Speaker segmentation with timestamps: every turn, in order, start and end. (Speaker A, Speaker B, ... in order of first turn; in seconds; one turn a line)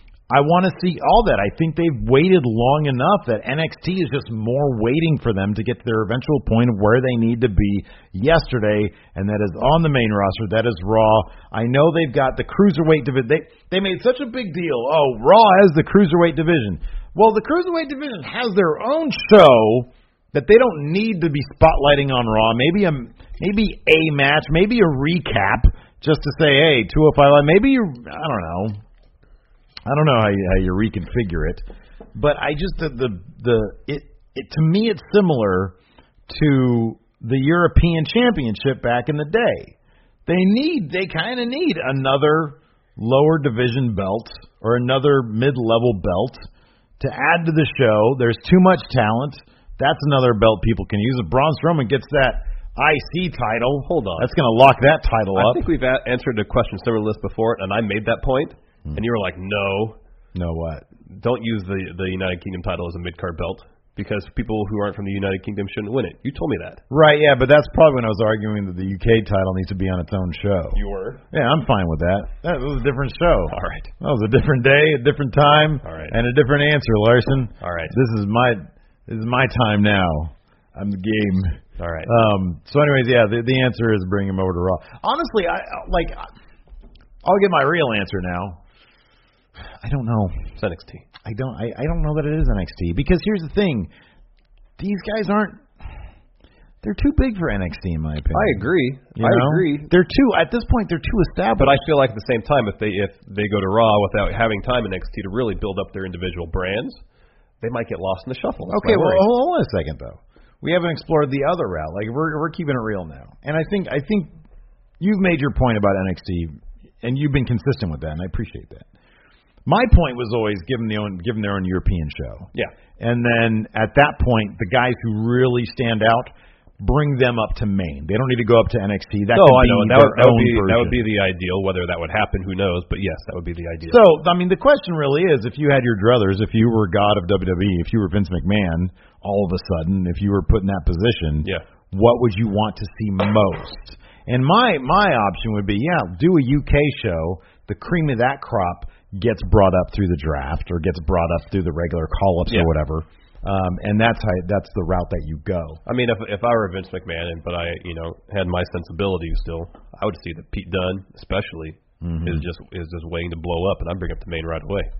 Speaker A: 0.3-28.8
Speaker A: 29.9-35.8
Speaker A: 36.3-39.8
Speaker A: 40.3-46.5
Speaker A: 47.0-55.7
Speaker B: 53.9-54.3
Speaker B: 55.4-60.0
Speaker A: 60.4-60.9
Speaker B: 61.1-66.8
Speaker A: 66.9-86.3
Speaker B: 70.8-71.2
Speaker B: 73.5-73.9
Speaker B: 75.8-76.2
Speaker B: 77.6-78.0
Speaker B: 81.8-82.1
Speaker A: 87.2-88.6
Speaker A: 89.8-90.5
Speaker B: 90.6-91.0
Speaker A: 91.2-93.9
Speaker A: 94.8-95.7
Speaker A: 96.8-101.9
Speaker B: 98.3-99.9
Speaker B: 101.6-107.0
Speaker B: 107.6-109.2
Speaker A: 108.7-114.3
Speaker A: 115.0-118.9
Speaker A: 119.7-131.0
Speaker B: 129.3-134.0
Speaker A: 133.8-155.8
Speaker B: 155.9-164.9
Speaker A: 162.0-162.5